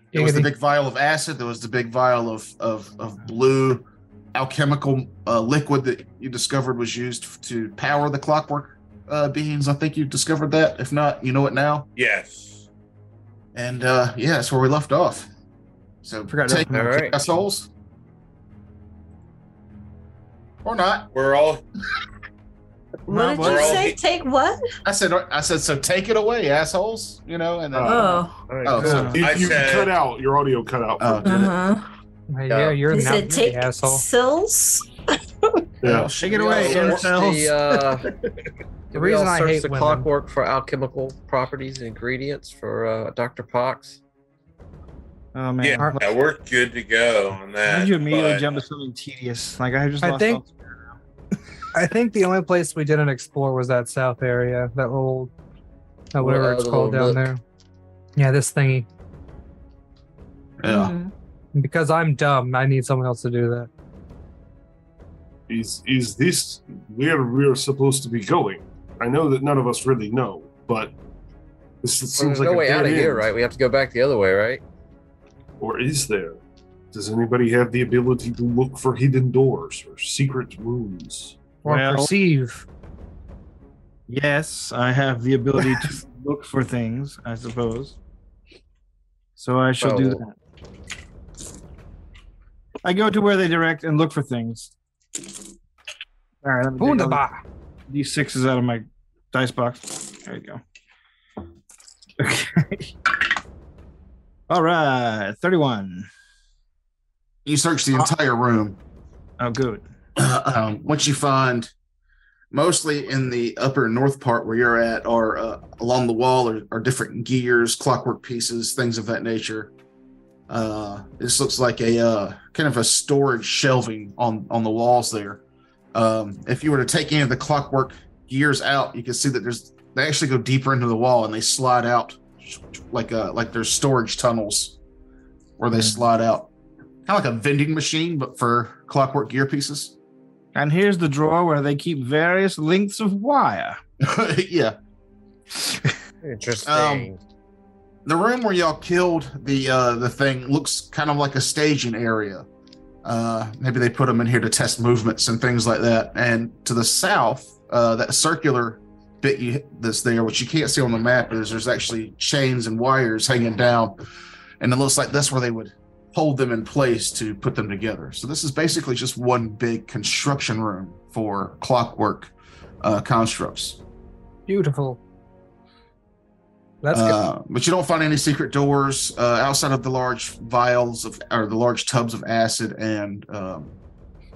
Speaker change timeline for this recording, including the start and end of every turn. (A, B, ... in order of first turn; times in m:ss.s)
0:00.1-0:00.5 A
0:00.1-0:11.9 B
0:12.0-0:12.6 C
0:13.5-0:15.3 B
0:16.0-0:17.7 B
0:16.3-0:17.0 D
0:16.7-0:17.2 E
0:20.6-0:21.1 B
0:21.1-0:21.6 C
0:23.1-0:24.6 F
0:23.1-0:23.9 D
0:23.4-0:24.0 C
0:24.8-0:29.2 B
0:27.7-0:31.5 G
0:27.8-0:28.4 F
0:28.5-0:29.0 E
0:28.8-0:29.2 D
0:29.2-0:29.9 C
0:31.0-0:31.5 B
0:31.2-0:31.9 F
0:32.3-0:34.0 A
0:32.5-0:32.8 E
0:32.9-0:34.9 F
0:35.8-0:36.1 G
0:35.8-0:37.1 B
0:36.2-0:38.1 D
0:36.3-0:38.1 E
0:38.9-0:44.0 E
0:38.9-0:40.1 A
0:45.4-0:46.0 D
0:45.6-0:48.6 C
0:47.6-0:51.0 D
0:50.0-0:50.4 A
0:51.7-0:55.3 A
0:56.1-0:57.4 A
0:56.2-0:57.3 E
0:58.2-0:58.9 A
1:00.6-1:00.9 B
1:00.7-1:01.1 F
1:01.6-1:03.7 A
1:05.5-1:10.9 G
1:11.8-1:13.3 G
1:12.1-1:14.6 E
1:15.6-1:16.4 G
1:16.9-1:21.4 G
1:21.6-1:22.7 A
1:21.6-1:22.1 D
1:24.1-1:28.0 D
1:29.4-1:30.4 D
1:29.8-1:30.2 E
1:32.8-1:34.7 D
1:36.4-1:37.2 D
1:36.8-1:37.4 A
1:37.9-1:40.6 D
1:42.2-1:43.2 D
1:44.5-1:46.1 D
1:47.4-1:48.8 B
1:49.4-1:49.8 D
1:50.2-1:51.7 B
1:52.5-1:59.7 B
2:00.5-2:05.4 B
2:05.9-2:14.8 B
2:15.6-2:16.5 B
2:15.7-2:16.1 D
2:17.1-2:20.0 B
2:20.6-2:23.8 D
2:24.0-2:24.8 B
2:26.2-2:27.2 E
2:26.6-2:27.1 B
2:28.1-2:32.5 B
2:33.0-2:44.0 B
2:44.6-2:53.8 B
2:54.5-2:55.0 A
2:56.8-2:57.2 A
2:56.9-3:03.8 B